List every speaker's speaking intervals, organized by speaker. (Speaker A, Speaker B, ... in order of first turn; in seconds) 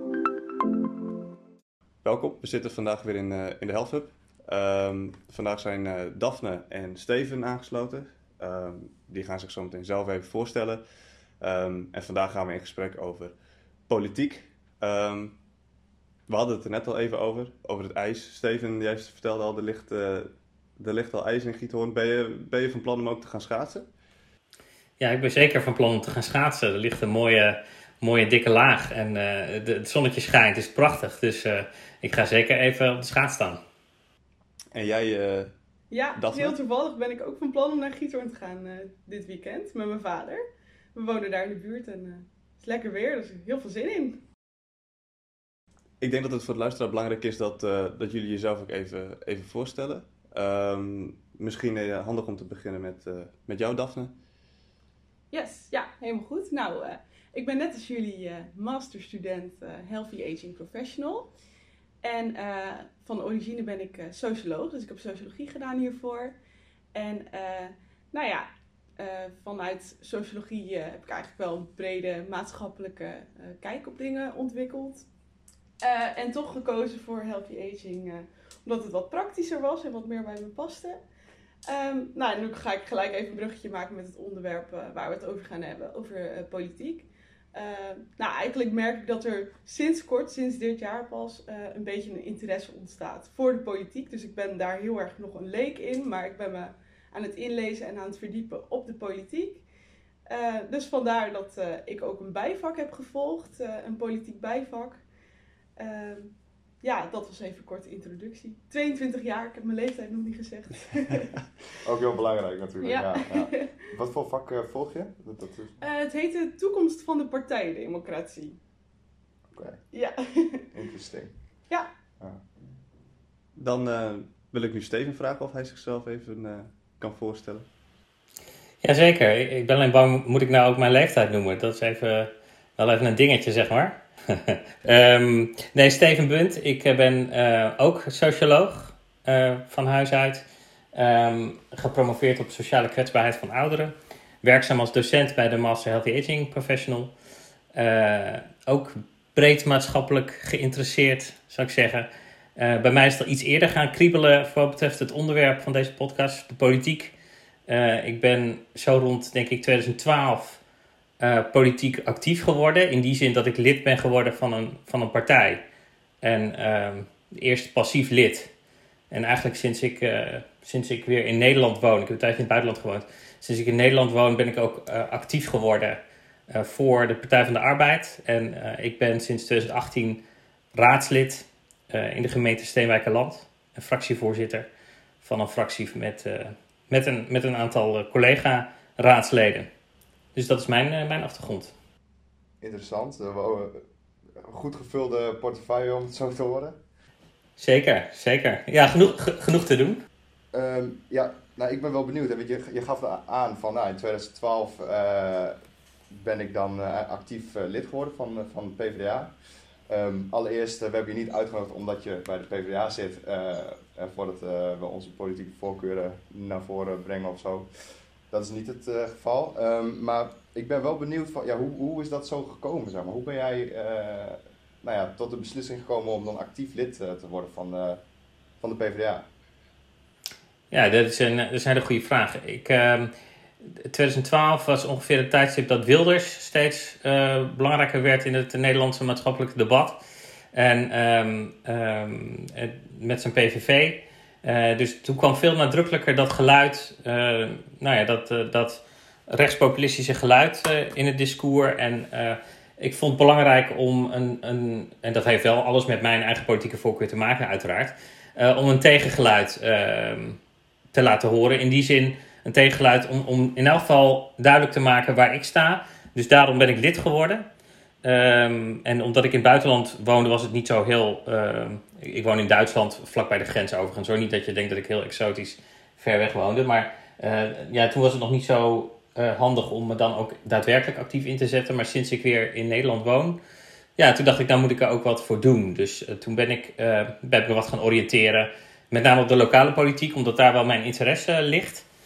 Speaker A: 2.0-10.8, 11.4-13.3, 13.9-15.3, 16.3-23.9, 34.7-35.5, 36.1-36.5, 46.0-54.1, 123.5-127.7
Speaker B: 25.0-33.6, 128.8-147.1, 147.7-157.1, 157.7-160.6, 161.2-165.6, 166.2-168.5, 169.1-180.2, 180.8-184.7, 185.2-189.7, 190.3-191.7, 197.6-200.0, 230.7-233.1, 233.8-240.0, 240.5-260.4, 260.9-267.4, 268.0-283.4, 284.0-291.9
Speaker C: 35.9-40.4, 40.9-44.2, 55.3-61.3, 62.0-66.3, 66.9-68.5, 69.0-75.0, 75.8-81.0, 81.7-99.6, 100.3-105.0, 105.8-111.4, 112.8-113.7, 115.8-118.6, 119.9-120.7
Speaker D: 111.8-115.8, 119.5-119.8, 120.7-121.3, 192.6-193.8, 194.4-196.8, 200.5-205.6, 206.1-209.3, 209.9-217.7, 218.3-228.0, 228.6-229.3